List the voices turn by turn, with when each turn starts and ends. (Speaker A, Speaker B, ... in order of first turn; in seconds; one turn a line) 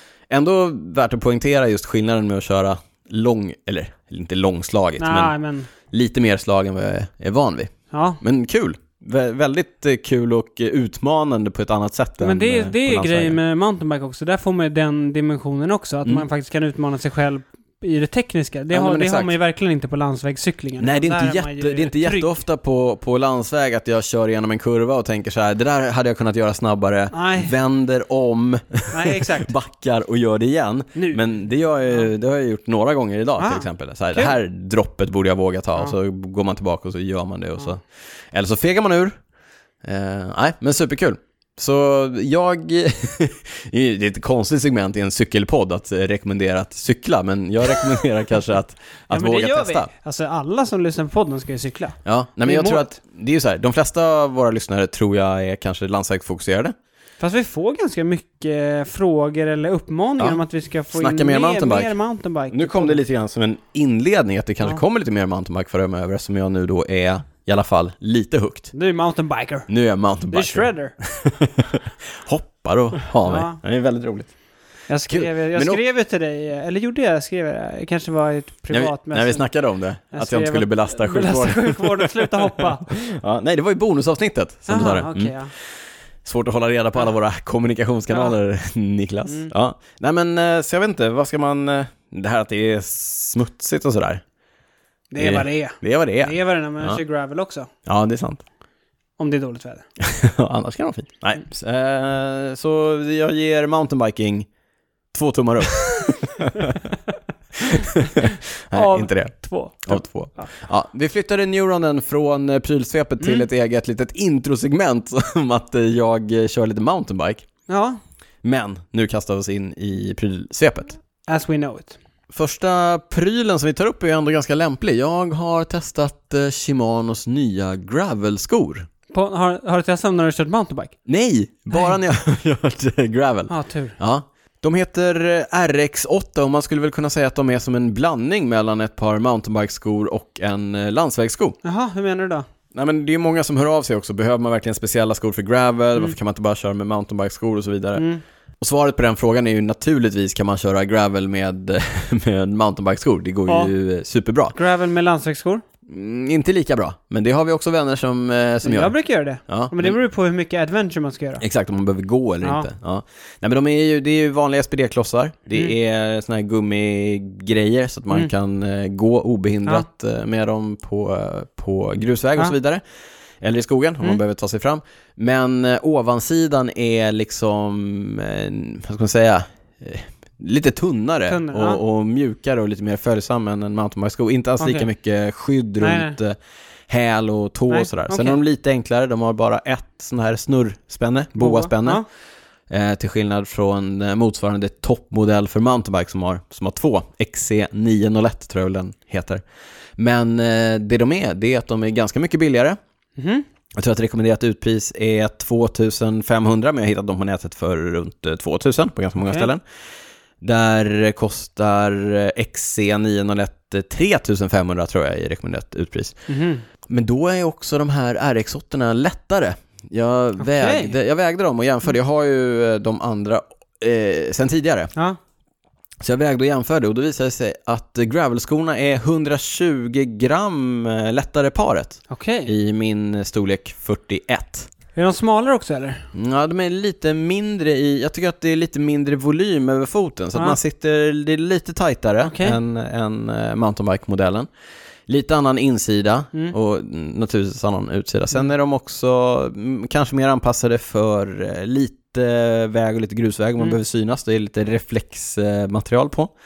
Speaker A: 0.3-5.3
Speaker B: 5.0-5.7
Speaker A: 5.9-13.4
Speaker B: 7.9-8.2
Speaker B: 12.2-22.4
Speaker A: 18.7-19.3
Speaker A: 20.8-39.1
Speaker B: 27.1-27.5
Speaker B: 28.9-29.5
Speaker B: 33.4-34.4
Speaker A: 39.8-49.9
Speaker B: 49.1-52.9
Speaker A: 52.0-56.8
Speaker B: 57.2-63.0
Speaker A: 60.9-61.9
Speaker A: 62.5-68.7
Speaker B: 68.7-69.7
Speaker A: 69.7-74.3
Speaker B: 70.3-71.0
Speaker B: 73.2-73.6
Speaker B: 74.9-79.5
Speaker A: 75.1-75.8
Speaker A: 78.7-85.3
Speaker B: 80.1-82.9
Speaker B: 84.7-85.5
Speaker A: 86.2-94.2
Speaker B: 95.1-97.7
Speaker A: 95.2-97.0
Speaker A: 97.8-98.4
Speaker B: 99.2-99.9
Speaker A: 100.0-104.5
Speaker A: 105.1-107.0
Speaker A: 107.6-117.5
Speaker B: 107.8-110.5
Speaker B: 113.2-113.5
Speaker B: 117.7-118.0
Speaker A: 118.4-121.0
Speaker B: 121.3-122.0
Speaker A: 122.3-128.9
Speaker B: 129.1-130.9
Speaker A: 131.1-141.6
Speaker B: 133.5-134.0
Speaker B: 141.6-142.5
Speaker A: 142.7-148.1
Speaker B: 148.0-148.2
Speaker A: 148.6-154.6
Speaker B: 153.5-153.7
Speaker B: 154.6-155.6
Speaker A: 155.9-158.9
Speaker B: 158.6-161.4
Speaker A: 159.5-160.0
Speaker A: 161.4-172.8
Speaker A: 173.4-186.4
Speaker B: 181.3-181.8
Speaker B: 184.6-184.9
Speaker B: 185.8-186.2
Speaker A: 186.9-192.0
Speaker B: 187.7-188.4
Speaker B: 191.4-192.1
Speaker A: 192.7-199.4
Speaker A: 200.0-202.8
Speaker B: 203.2-203.4
Speaker A: 203.8-209.6
Speaker B: 209.2-209.5
Speaker A: 210.4-216.2
Speaker B: 216.3-216.7
Speaker A: 216.9-224.9
Speaker B: 220.4-220.9
Speaker A: 226.0-234.7
Speaker B: 232.1-232.5
Speaker B: 234.9-236.1
Speaker A: 236.1-244.5
Speaker B: 242.2-242.6
Speaker A: 245.1-256.3